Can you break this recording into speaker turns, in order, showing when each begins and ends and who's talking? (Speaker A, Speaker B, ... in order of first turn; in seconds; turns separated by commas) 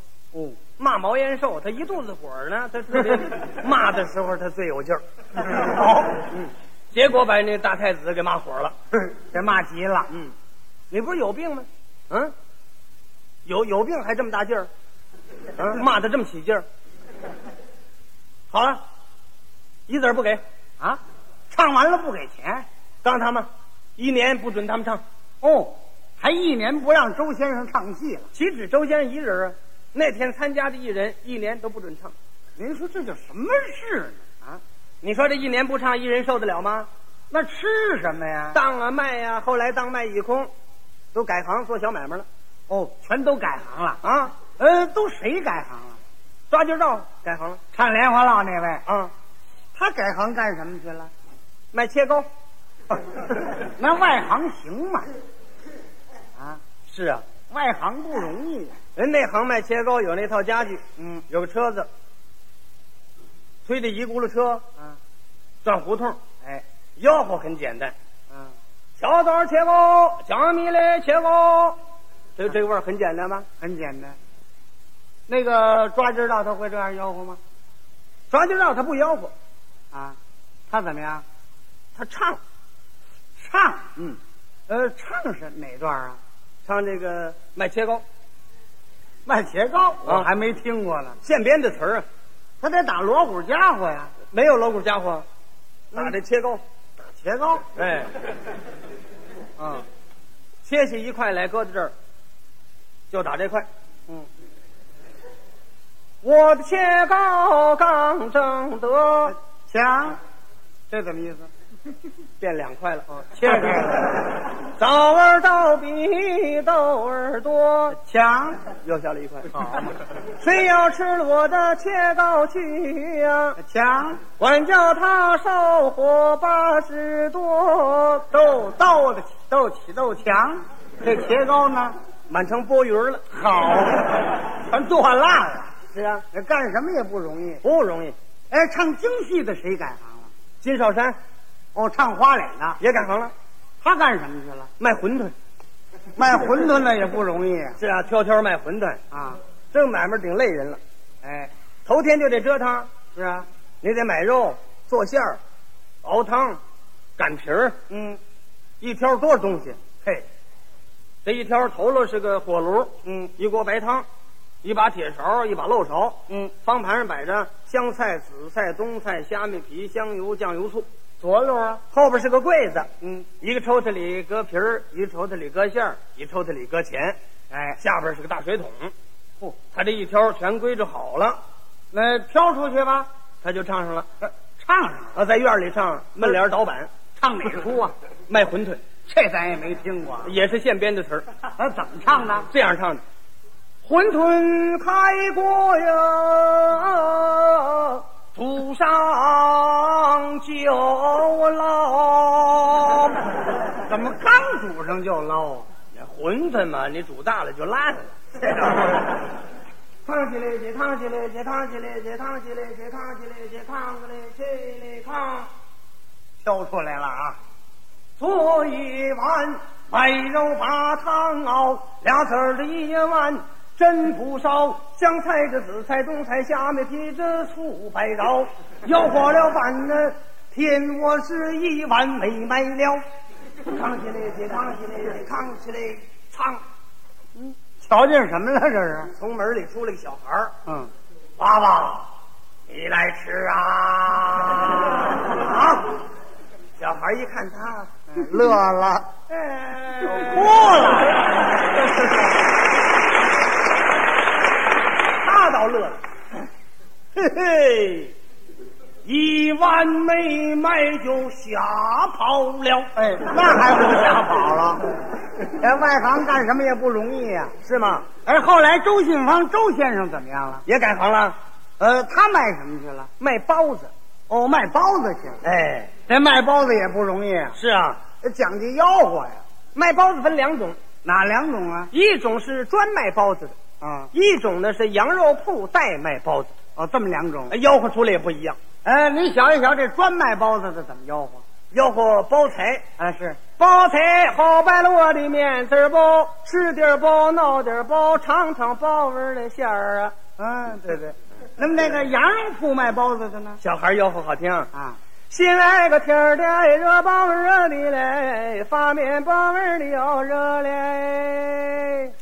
Speaker A: 0.3-0.6, Speaker B: 0.8-8.7, Speaker A: 8.9-10.1, Speaker B: 10.9-12.3, Speaker B: 13.4-14.7, Speaker B: 15.6-16.6, Speaker B: 18.5-18.8, Speaker B: 19.9-20.4, Speaker A: 20.8-22.6, Speaker B: 23.0-25.0, Speaker A: 25.4-28.3, Speaker B: 28.3-32.1, Speaker A: 32.6-34.6, Speaker B: 35.0-36.9, Speaker A: 37.3-38.6, Speaker B: 38.5-40.5, Speaker B: 41.1-42.2, Speaker A: 42.7-44.0, Speaker B: 44.0-44.4, Speaker A: 44.6-46.0, Speaker B: 46.5-47.6, Speaker A: 47.7-48.8, Speaker B: 48.9-49.1, Speaker A: 49.7-51.1, Speaker B: 51.7-52.2, Speaker A: 53.5-55.1, Speaker B: 56.9-57.2, Speaker A: 57.5-58.8, Speaker B: 59.0-61.9, Speaker A: 61.0-61.2, Speaker B: 63.6-64.6, Speaker B: 65.6-66.2, Speaker B: 67.0-67.9, Speaker B: 69.0-71.8, Speaker B: 72.4-73.5, Speaker A: 73.6-74.2, Speaker A: 75.3-77.4, Speaker B: 78.3-79.3, Speaker A: 79.9-80.2, Speaker A: 80.7-81.2, Speaker B: 82.0-82.4, Speaker A: 83.4-84.2, Speaker A: 84.7-86.2, Speaker B: 86.6-88.0, Speaker A: 89.2-91.2, Speaker B: 91.2-92.0, Speaker A: 92.6-94.1, Speaker B: 94.3-95.2, Speaker B: 95.9-96.6, Speaker A: 97.1-97.7, Speaker B: 97.8-98.1, Speaker A: 99.6-99.8, Speaker B: 100.6-101.9, Speaker B: 103.1-103.7, Speaker B: 106.2-109.3, Speaker A: 109.3-110.2, Speaker A: 110.9-111.5, Speaker B: 112.4-113.1, Speaker A: 113.1-114.2, Speaker B: 114.6-118.0, Speaker A: 118.0-118.6, Speaker B: 118.8-119.5, Speaker A: 119.5-119.9, Speaker B: 120.4-123.6, Speaker A: 123.6-124.2, Speaker B: 124.4-128.2, Speaker A: 128.3-131.9, Speaker B: 132.3-133.2, Speaker A: 133.3-135.7, Speaker B: 135.9-136.2, Speaker A: 136.3-137.6, Speaker B: 137.6-138.1, Speaker A: 138.5-140.3, Speaker B: 140.6-141.2, Speaker A: 141.7-142.8, Speaker B: 142.8-143.3, Speaker A: 143.8-144.7, Speaker B: 144.8-145.3, Speaker A: 146.2-147.8, Speaker B: 147.8-149.0, Speaker A: 149.1-149.4, Speaker B: 149.7-150.8, Speaker A: 151.2-151.5, Speaker B: 151.8-152.9, Speaker A: 153.1-153.5, Speaker B: 153.8-155.4, Speaker B: 156.0-156.6, Speaker B: 157.2-157.8, Speaker A: 157.9-158.2, Speaker B: 158.8-159.8, Speaker B: 161.2-164.1, Speaker A: 163.0-163.3, Speaker B: 164.6-170.8, Speaker A: 171.2-171.8, Speaker B: 171.9-172.9, Speaker A: 173.0-173.3, Speaker B: 173.4-177.2, Speaker A: 177.5-177.8, Speaker B: 177.8-178.9, Speaker B: 179.7-181.4, Speaker A: 181.9-183.1, Speaker B: 183.4-184.1, Speaker A: 184.2-185.2, Speaker B: 185.1-186.9, Speaker A: 187.2-187.9, Speaker B: 188.3-188.8, Speaker A: 189.1-190.3, Speaker B: 190.2-191.2, Speaker A: 191.6-192.5, Speaker B: 192.5-193.0, Speaker B: 193.8-203.2, Speaker A: 203.8-205.7, Speaker B: 205.9-209.1, Speaker B: 210.1-215.5, Speaker A: 216.4-217.4, Speaker B: 218.2-233.0, Speaker B: 233.7-236.6, Speaker A: 237.4-239.1, Speaker B: 239.1-240.5, Speaker A: 240.7-240.9, Speaker B: 241.4-242.1, Speaker B: 242.7-246.0, Speaker B: 246.8-247.9, Speaker A: 248.1-249.1, Speaker B: 249.3-251.1, Speaker A: 250.0-251.2, Speaker B: 255.2-256.0, Speaker B: 257.1-258.1, Speaker B: 259.0-262.9, Speaker A: 262.9-264.9, Speaker A: 265.4-267.5, Speaker B: 267.6-268.1, Speaker A: 268.2-270.6, Speaker B: 270.6-271.4, Speaker A: 271.8-273.1, Speaker B: 273.2-273.9, Speaker A: 274.3-275.4, Speaker B: 275.4-275.9, Speaker A: 276.1-277.6, Speaker B: 277.5-278.0, Speaker A: 278.2-279.4, Speaker B: 279.7-280.8, Speaker A: 281.0-281.9, Speaker B: 281.9-283.6, Speaker A: 283.8-284.1, Speaker B: 284.1-286.5, Speaker A: 286.8-287.5, Speaker B: 287.5-288.6, Speaker A: 288.8-291.4, Speaker B: 291.7-292.8, Speaker A: 293.0-293.4, Speaker B: 293.6-300.1, Speaker A: 300.4-303.6, Speaker B: 303.6-304.7, Speaker B: 305.3-312.1